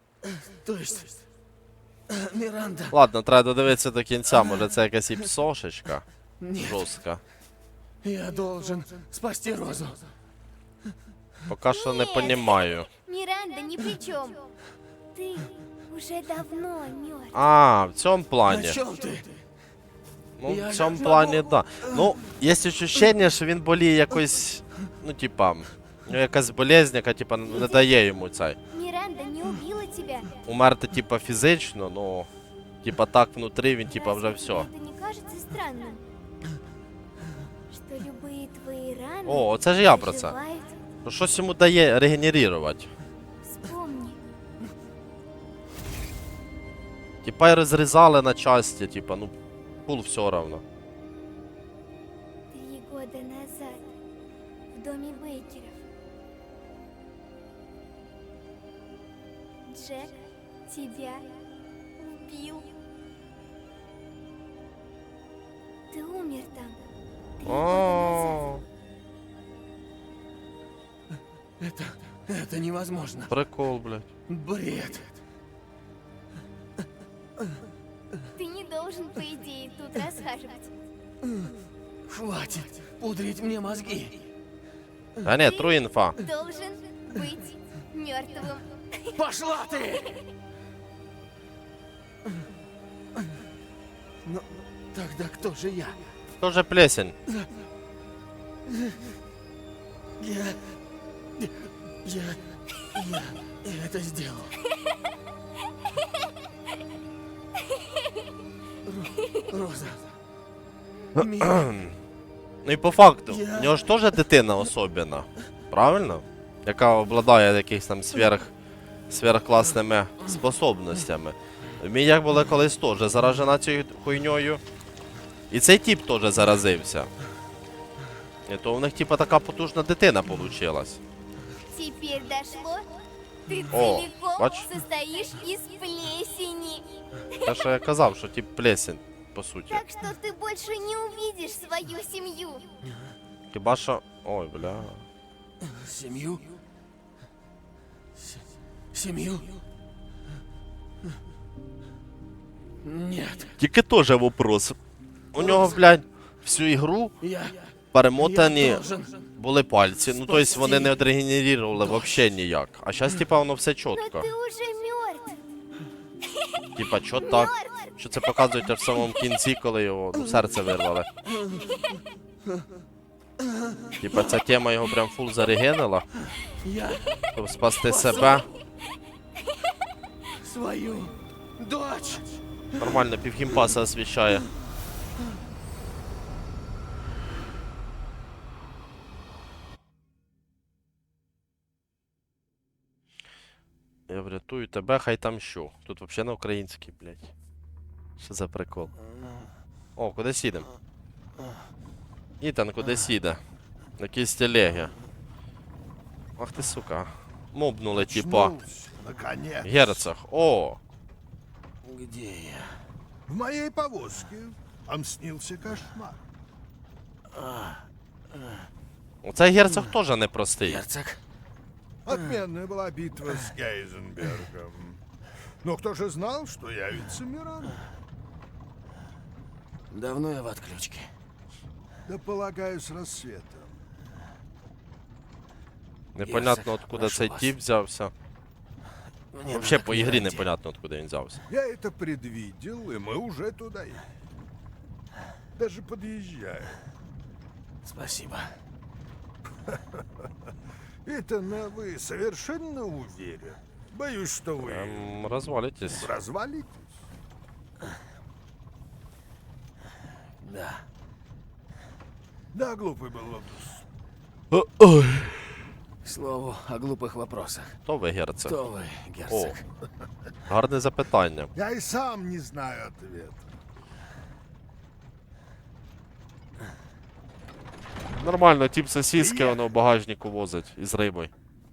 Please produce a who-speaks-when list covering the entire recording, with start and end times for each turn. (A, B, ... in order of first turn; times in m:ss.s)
0:00.3-0:01.2 A
0:02.1-0:02.9 A
0:02.9-0:07.2 B
0:06.4-0:06.9 A
0:08.0-0:10.1 A
0:11.5-0:12.9 B
0:11.9-0:12.4 C
0:13.1-0:14.4 C
0:15.2-0:17.3 C
0:17.3-0:18.8 B
0:18.5-0:19.4 A
0:20.4-0:28.6 B
0:20.5-0:21.9 A
0:28.7-0:30.3 C
0:30.5-0:32.3 B
0:32.8-0:34.7 B
0:34.0-0:36.0 C
0:37.7-0:39.5 C
0:39.3-0:40.4 B
0:40.2-0:40.8 C
0:41.0-0:42.9 B
0:43.5-0:44.2 C
0:47.2-0:49.3 B
0:49.9-0:50.6 B
0:52.5-0:53.8 C
0:54.7-0:55.8 C
0:59.7-1:00.2 C
1:00.7-1:01.3 C
1:02.0-1:02.7 C
1:05.9-1:06.8 C
1:07.4-1:08.6 B
1:07.5-1:08.2 C
1:11.6-1:13.3 A
1:13.3-1:14.1 B
1:14.3-1:15.2 A
1:18.4-1:20.7 C
1:22.1-1:24.3 A
1:25.2-1:26.2 B
1:26.2-1:28.6 C
1:29.1-1:30.2 A
1:34.2-1:36.0 A
1:36.4-1:37.2 B
1:40.2-1:40.7 A
1:41.4-1:42.4 A
1:43.0-1:44.6 A
1:48.9-1:50.1 A
1:51.2-1:51.6 A
1:51.2-1:52.0 B
1:52.6-1:58.5 B
1:53.3-1:53.7 A
1:59.1-2:04.6 B
2:05.5-2:07.1 B
2:08.5-2:11.0 B
2:11.7-2:12.9 C
2:13.5-2:16.9 C
2:13.7-2:14.7 B
2:17.4-2:19.9 B
2:19.7-2:22.6 C
2:23.5-2:25.1 B
2:25.6-2:26.6 A
2:28.2-2:29.6 A
2:32.8-2:33.6 A
2:33.6-2:34.8 B
2:35.3-2:37.2 B
2:37.2-2:39.2 A
2:37.9-2:38.8 B
2:39.4-2:44.3 B
2:40.5-2:40.8 A
2:44.1-2:45.4 C
2:46.8-2:51.1 B
2:47.4-2:47.7 C
2:51.4-2:51.7 A
2:54.0-2:56.1 B
2:56.6-2:57.2 A
2:57.2-2:58.5 B
2:57.8-2:58.5 A
3:00.3-3:02.4 A
3:02.8-3:04.5 B
3:14.1-3:17.3 B
3:18.2-3:18.9 B
3:20.0-3:20.7 B
3:22.4-3:23.4 B
3:24.0-3:24.9 B
3:26.4-3:28.6 B
3:28.0-3:30.1 D
3:29.6-3:30.8 B
3:31.8-3:32.8 A
3:33.3-3:36.2 D
3:37.3-3:37.8 A
3:39.2-3:40.8 B
3:40.6-3:41.2 A
3:42.1-3:45.0 D
3:45.6-3:47.8 D
3:49.9-3:51.1 A
3:52.1-3:53.8 D
3:56.2-3:58.1 B
3:56.2-3:57.5 A
3:59.3-4:00.5 A
3:59.5-4:01.4 B
4:01.5-4:04.0 D
4:05.6-4:06.8 D
4:07.9-4:08.6 A
4:11.0-4:15.1 D
4:14.6-4:16.1 B
4:16.0-4:16.8 D
4:20.4-4:20.8 A
4:22.5-4:23.8 D
4:24.5-4:25.2 B
4:26.0-4:27.8 A
4:27.9-4:28.6 B
4:28.5-4:29.6 A
4:29.3-4:29.6 B
4:30.5-4:31.5 B
4:31.6-4:33.5 D
4:38.2-4:41.3 B
4:39.2-4:39.5 D